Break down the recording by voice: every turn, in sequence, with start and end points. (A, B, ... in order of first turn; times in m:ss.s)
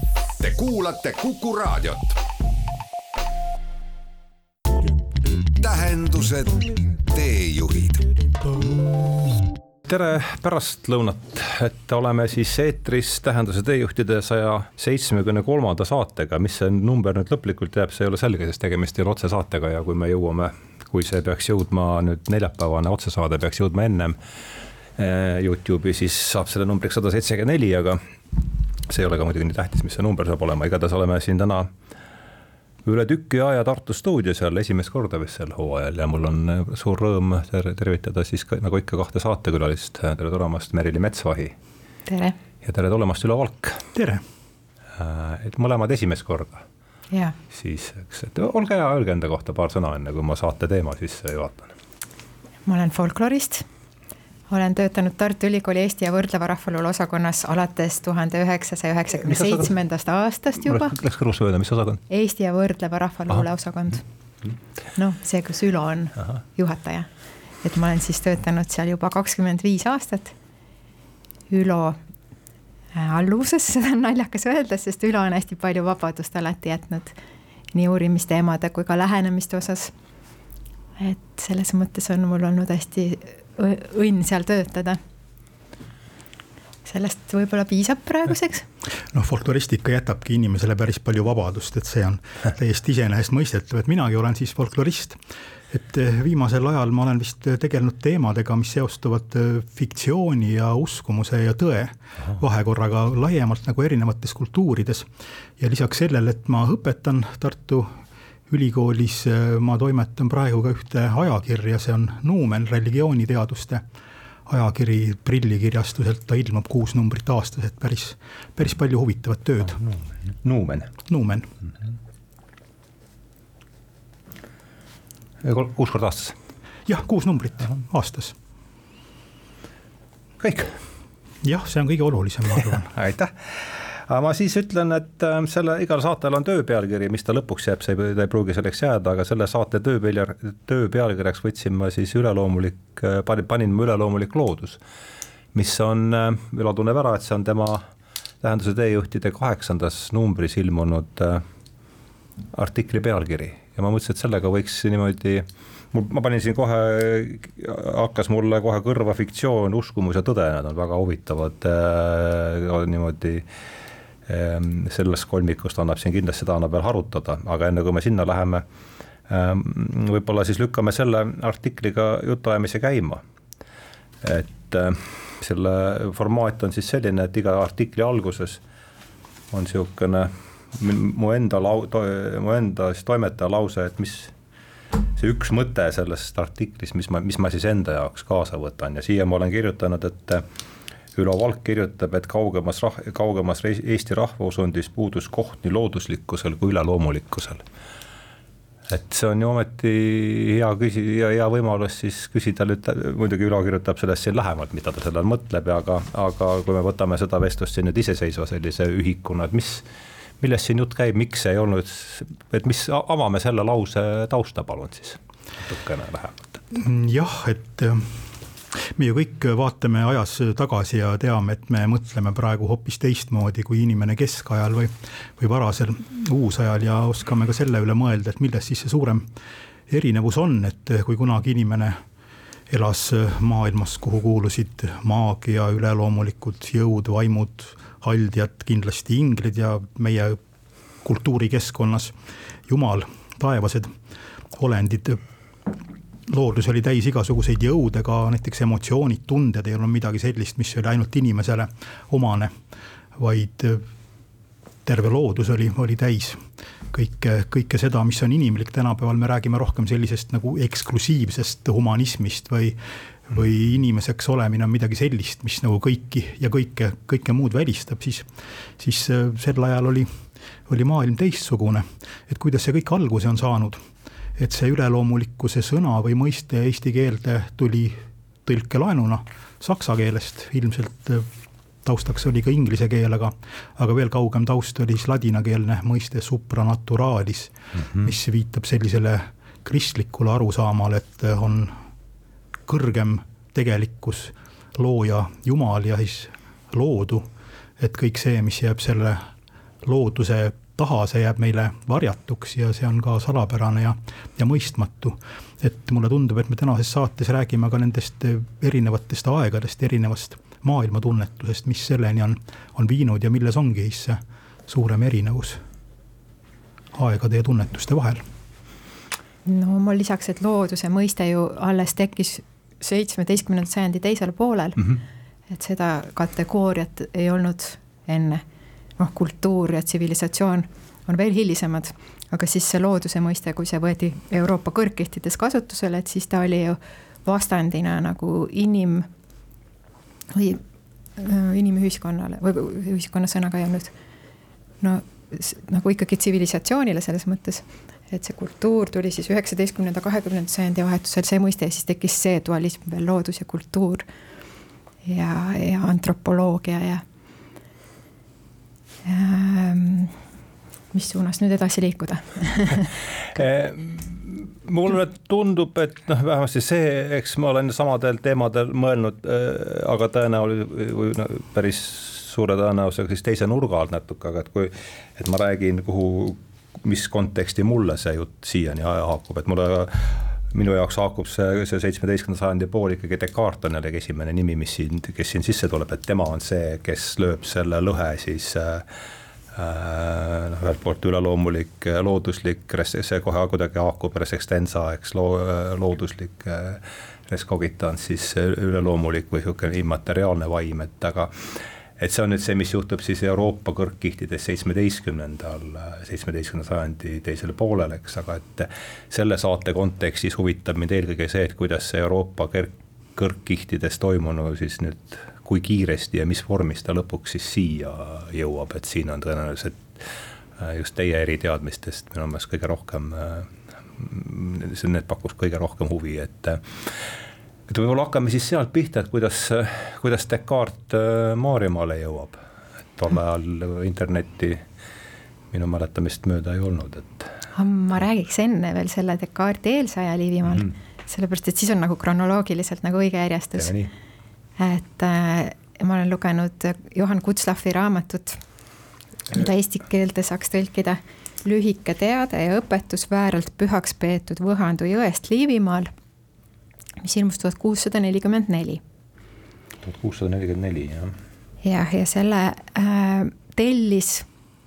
0:00.4-0:02.2 A
0:05.6-0:08.5 A
0:09.8-0:24.2 B
0:25.0-0:28.0 B
0:28.9-0:31.7 B
0:32.8-0:41.6 B
0:42.1-0:42.4 C
0:42.6-0:43.8 B
0:43.9-0:44.2 D
0:45.0-0:46.6 B
0:47.5-0:51.7 B
0:52.6-0:53.6 C
0:54.5-1:01.0 C
0:59.2-0:59.7 B
1:00.6-1:02.0 B
1:02.1-1:04.0 C
1:04.9-1:07.1 C
1:07.6-1:10.3 C
1:11.5-1:12.0 C
1:12.9-1:17.2 C
1:17.7-1:19.9 C
1:21.0-1:25.0 C
1:26.8-1:28.6 C
1:29.1-1:48.0 D
1:48.5-1:53.8 D
1:54.5-1:59.8 D
1:59.8-2:00.9 B
2:01.0-2:01.5 D
2:05.4-2:06.3 B
2:06.9-2:08.3 D
2:10.4-2:10.8 B
2:11.4-2:12.9 D
2:12.9-2:24.8 B
2:25.5-2:27.8 B
2:28.4-2:31.4 B
2:32.5-2:43.5 B
2:44.3-2:48.6 B
2:49.3-2:53.2 B
2:54.2-2:58.6 B
2:59.5-3:04.3 B
3:05.1-3:10.4 B
3:11.1-3:17.6 B
3:18.9-3:29.8 B
3:30.4-3:36.6 B
3:36.7-3:49.3 D
3:49.9-3:52.0 D
3:52.7-4:00.4 D
4:01.0-4:02.1 D
4:02.7-4:03.9 D
4:04.5-4:05.8 D
4:06.3-4:12.5 D
4:13.2-4:13.8 D
4:14.8-4:28.3 D
4:28.8-4:30.1 D
4:30.7-4:33.8 D
4:34.4-4:41.3 D
4:41.8-4:51.8 D
4:52.7-4:57.3 D
4:57.8-4:59.3 D
4:59.8-5:15.6 D
5:16.9-5:18.2 D
5:19.4-5:24.8 C
5:25.5-5:28.4 C
5:29.0-5:39.1 C
5:40.3-5:40.6 C
5:41.2-5:43.9 C
5:44.8-5:54.0 C
5:55.0-5:57.0 C
5:59.0-6:00.2 C
6:00.9-6:02.9 C
6:03.3-6:28.8 B
6:29.5-7:07.1 B
7:07.7-7:12.4 B
7:12.9-7:14.6 B
7:15.5-7:17.4 B
7:17.5-7:23.7 C
7:23.6-7:23.9 B
7:24.6-7:28.4 C
7:29.3-7:35.9 C
7:37.0-7:38.8 C
7:39.8-7:41.2 B
7:41.6-7:44.2 C